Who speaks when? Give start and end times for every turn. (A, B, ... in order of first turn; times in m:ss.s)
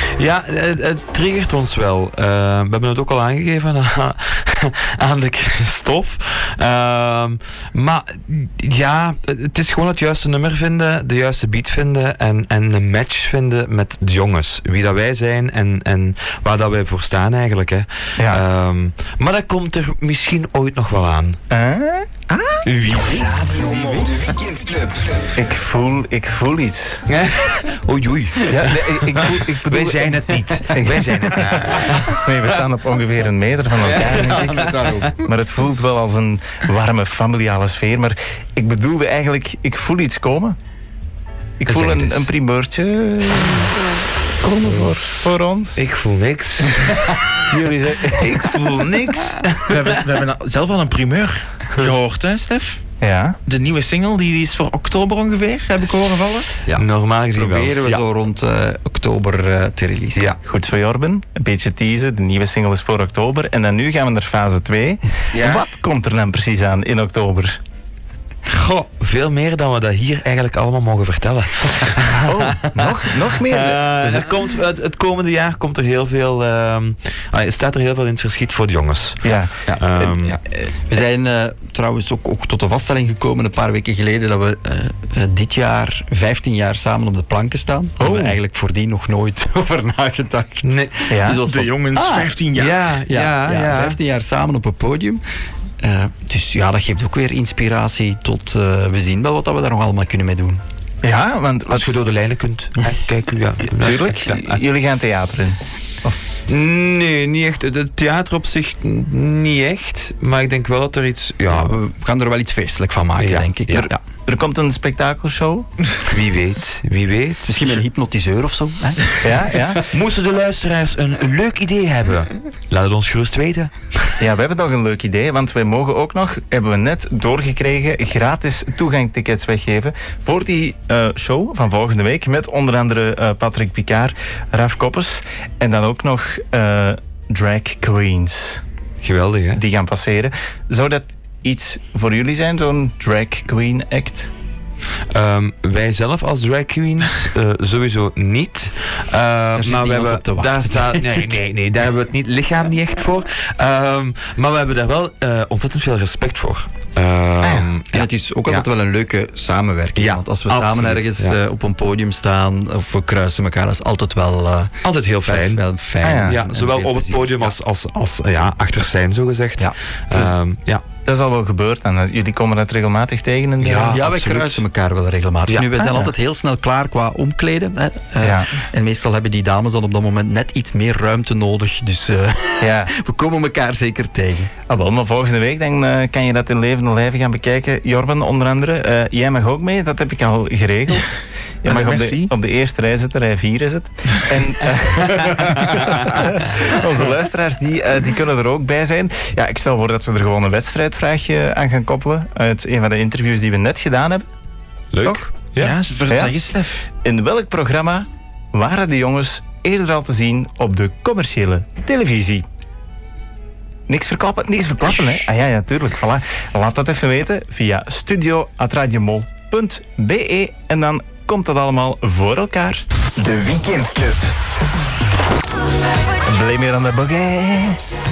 0:00.2-0:21.4 A
0:21.5-0:22.1 B
0:22.6-0:24.1 A
0:23.0-0:25.2 C
0:25.4-0:27.0 B
0:27.1-0:32.3 A
0:28.5-0:40.6 B
0:33.8-0:35.1 A
0:34.5-0:35.1 D
0:41.6-0:45.9 B
0:41.7-0:42.2 A
0:44.6-0:44.9 A
0:45.8-0:47.2 A
0:47.5-0:48.6 B
0:48.1-0:49.8 A
0:49.7-0:52.8 E
0:53.0-0:53.4 B
0:53.5-0:56.5 E
0:56.7-1:00.3 D
0:56.7-0:58.0 A
1:00.4-1:07.6 B
1:05.4-1:05.6 E
1:08.5-1:19.2 A
1:12.2-1:14.3 B
1:19.2-1:20.3 B
1:19.7-1:32.3 D
1:19.8-1:20.4 A
1:28.0-1:28.4 B
1:30.6-1:31.1 A
1:31.1-1:31.4 B
1:31.4-1:32.8 E
1:32.6-1:34.0 A
1:33.1-1:35.2 D
1:35.8-1:40.6 D
1:41.0-1:42.0 B
1:41.7-1:44.6 A
1:43.8-1:46.2 B
1:46.5-1:51.8 A
1:51.5-1:54.0 D
1:53.2-1:53.9 A
1:53.7-1:55.7 B
1:56.0-1:57.8 A
1:57.5-1:59.3 D
1:59.2-1:59.9 B
1:59.8-2:04.1 A
2:04.2-2:18.6 B
2:19.0-2:19.6 A
2:19.6-2:24.3 B
2:25.1-2:38.7 A
2:29.6-2:31.3 D
2:37.4-2:37.7 B
2:37.9-2:47.5 D
2:40.0-2:41.4 A
2:44.8-2:45.6 A
2:46.0-2:46.4 B
2:46.2-2:50.9 A
2:51.0-2:54.6 B
2:53.6-2:54.0 A
2:53.9-3:04.5 D
2:55.5-2:56.1 A
2:58.2-2:58.6 B
3:02.6-3:02.9 B
3:04.7-3:24.3 B
3:11.7-3:12.3 E
3:24.9-3:25.8 A
3:25.0-3:25.3 B
3:25.6-3:26.9 E
3:26.1-3:26.3 B
3:27.0-3:32.4 B
3:33.9-3:42.8 B
3:43.2-3:44.3 C
3:46.2-3:47.8 B